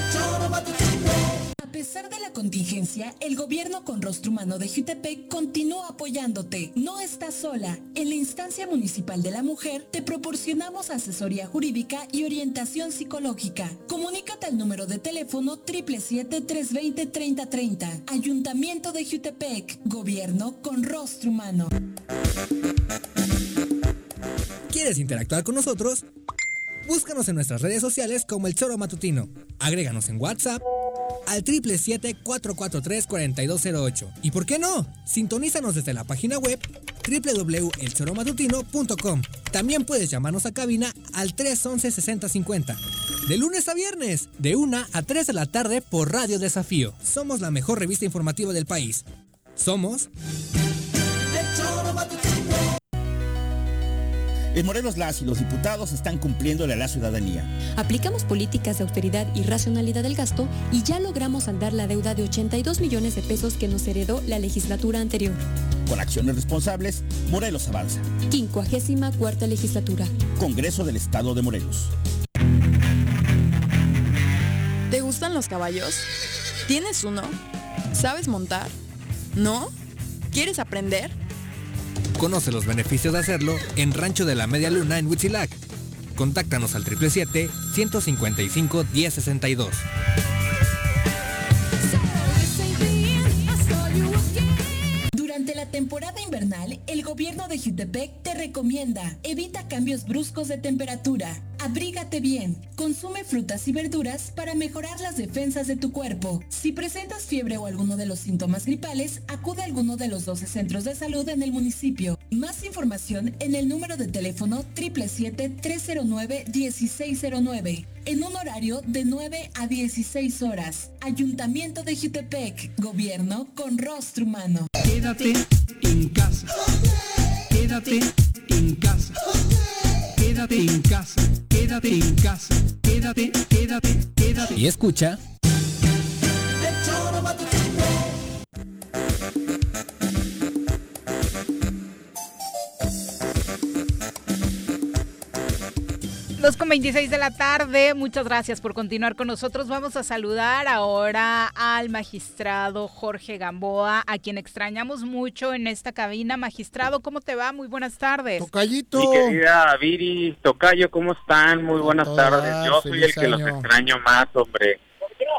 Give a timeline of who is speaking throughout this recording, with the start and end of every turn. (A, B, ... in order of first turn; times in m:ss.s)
0:01.6-0:21.7 A
0:24.7-0:26.0 B
0:26.8-0:30.6 B
0:31.2-0:49.0 B
0:49.6-0:50.1 B
0:54.5-0:57.5 C
0:57.7-1:05.4 D
1:05.8-1:08.0 C
1:08.3-1:10.1 D
1:10.4-1:11.9 C
1:14.9-1:16.1 E
1:16.6-1:17.4 E
1:17.9-1:18.7 E
1:19.3-1:19.7 E
1:20.3-1:21.2 E
1:22.2-1:25.6 B
1:26.2-1:29.9 B
1:35.1-2:04.7 A
2:04.8-2:06.5 F
2:07.5-2:09.2 F
2:10.2-2:14.5 F
2:14.5-2:15.2 B
2:26.4-2:38.5 G
2:38.4-2:39.4 H
2:38.9-2:44.8 I
2:41.8-2:43.7 H